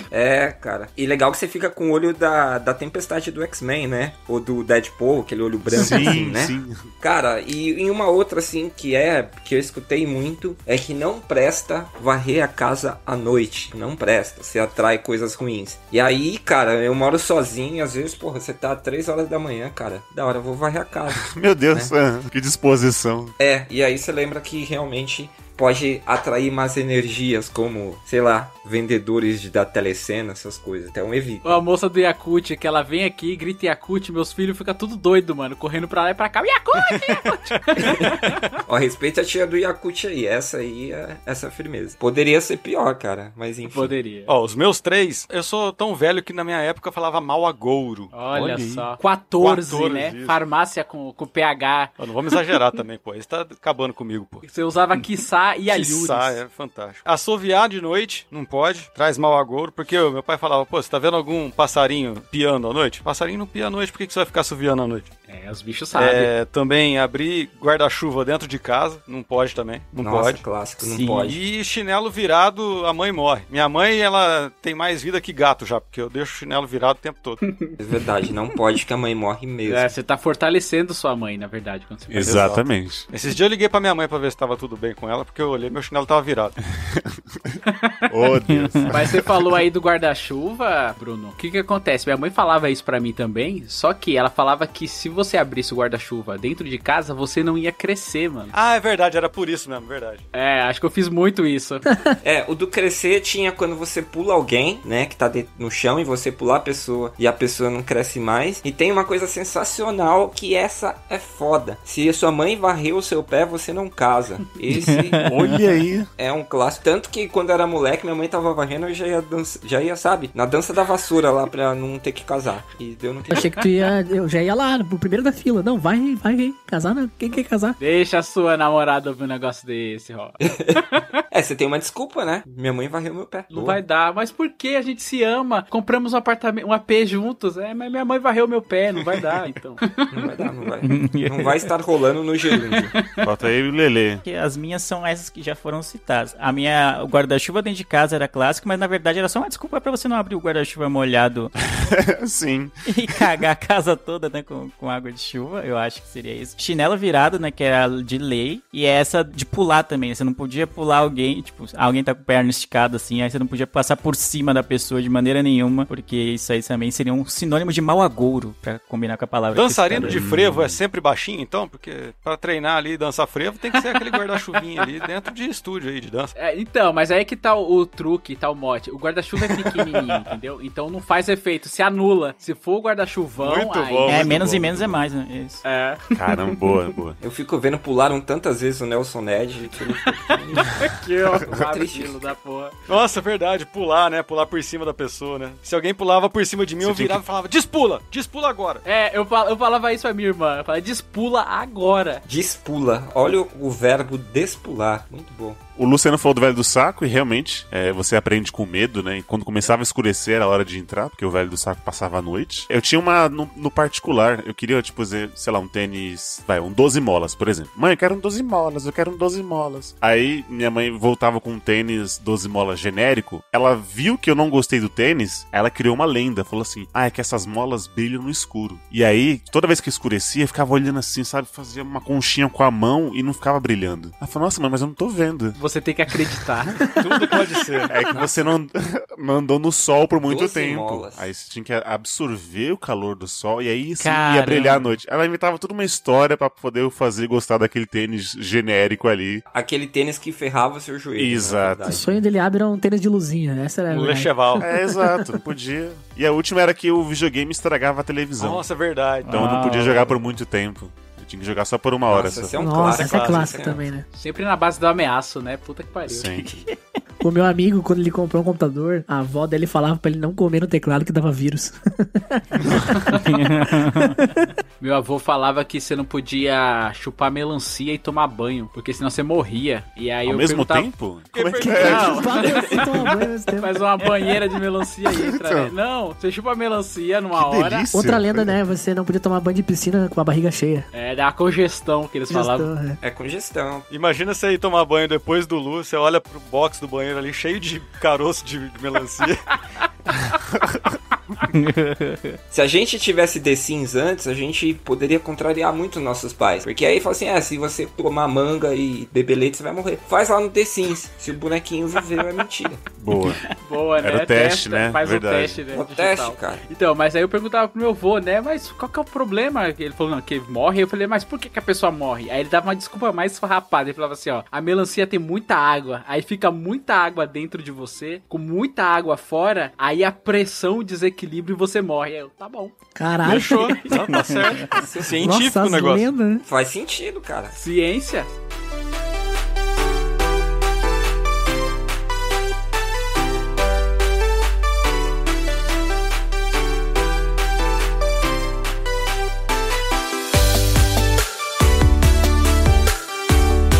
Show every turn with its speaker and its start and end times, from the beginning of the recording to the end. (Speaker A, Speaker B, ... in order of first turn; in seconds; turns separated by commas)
Speaker A: 0.1-21.9, Speaker B: 5.7-6.8, Speaker C: 5.7-6.1, Speaker B: 21.1-23.3, Speaker A: 23.4-31.6, Speaker D: 31.4-38.5, Speaker E: 36.8-37.3, Speaker A: 37.8-43.9, Speaker D: 43.6-44.3, Speaker E: 44.3-48.1, Speaker D: 48.1-52.4, Speaker B: 48.3-48.9, Speaker E: 49.4-50.4, Speaker E: 52.0-54.5, Speaker D: 54.4-56.4, Speaker E: 55.7-65.1, Speaker D: 65.3-66.3, Speaker E: 66.0-70.4, Speaker A: 70.0-71.4, Speaker F: 70.8-71.4, Speaker E: 71.3-77.4, Speaker A: 77.8-79.9, Speaker D: 79.6-82.4, Speaker B: 82.1-83.1, Speaker E: 82.2-86.5, Speaker B: 86.8-89.5, Speaker D: 87.7-88.0, Speaker F: 88.5-88.9, Speaker D: 88.9-98.5, Speaker E: 98.5-100.2, Speaker D: 100.3-101.8, Speaker C: 101.9-102.1, Speaker A: 102.2-115.3, Speaker F: 114.7-115.5, Speaker B: 115.2-116.1, Speaker A: 116.2-123.6, Speaker C: 123.3-127.8, Speaker D: 127.8-131.2, Speaker A: 130.4-133.8, Speaker D: 133.5-140.3, Speaker A: 140.1-143.0, Speaker F: 140.8-141.6, Speaker D: 142.7-143.2, Speaker B: 143.2-144.2, Speaker F: 144.2-151.5, Speaker B: 151.7-153.2, Speaker F: 152.9-170.2, Speaker E: 169.5-176.3, Speaker B: 169.9-170.8, Speaker D: 173.8-174.2, Speaker D: 176.4-184.4, Speaker E: 183.4-185.0, Speaker F: 184.1-185.6, Speaker D: 185.6-186.8, Speaker B: 186.2-187.2, Speaker A: 187.2-192.3, Speaker D: 190.1-192.8, Speaker E: 192.9-198.8, Speaker B: 196.8-197.2, Speaker D: 198.9-202.2, Speaker A: 202.3-205.6, Speaker B: 205.8-235.6, Speaker D: 235.6-237.3, Speaker E: 236.9-238.4, Speaker B: 237.9-249.4, Speaker A: 240.3-241.3, Speaker F: 244.0-244.9, Speaker A: 249.5-252.2, Speaker B: 251.2-252.0, Speaker C: 251.9-255.3, Speaker E: 253.9-254.7, Speaker B: 254.6-258.7, Speaker E: 258.4-260.1, Speaker F: 259.2-260.0, Speaker B: 259.3-262.6, Speaker A: 262.1-263.9, Speaker C: 262.5-264.1, Speaker E: 262.8-263.5, Speaker D: 264.1-266.4, Speaker B: 266.1-266.6, Speaker F: 266.5-266.8, Speaker C: 267.2-273.0, Speaker F: 273.2-274.1, Speaker C: 273.7-274.5, Speaker D: 274.8-280.9, Speaker B: 280.3-282.7, Speaker E: 281.3-282.8, Speaker C: 281.6-284.3, Speaker D: 281.8-287.9, Speaker B: 285.1-285.7, Speaker B: 287.3-288.6, Speaker C: 287.9-290.9, Speaker D: 290.9-292.7, Speaker C: 292.3-293.0, Speaker A: 293.0-293.9, Speaker E: 293.9-299.4, Speaker F: 301.5-302.4, Speaker A: 302.5-312.8, Speaker B: 313.0-313.4, Speaker D: 313.6-332.8, Speaker B: 314.0-315.6, Speaker A: 315.7-316.6, Speaker C: 332.9-334.2, Speaker E: 333.2-336.1, Speaker D: 333.3-333.9, Speaker A: 334.7-335.2, Speaker C: 335.1-336.4, Speaker A: 336.4-337.6, Speaker D: 337.5-338.3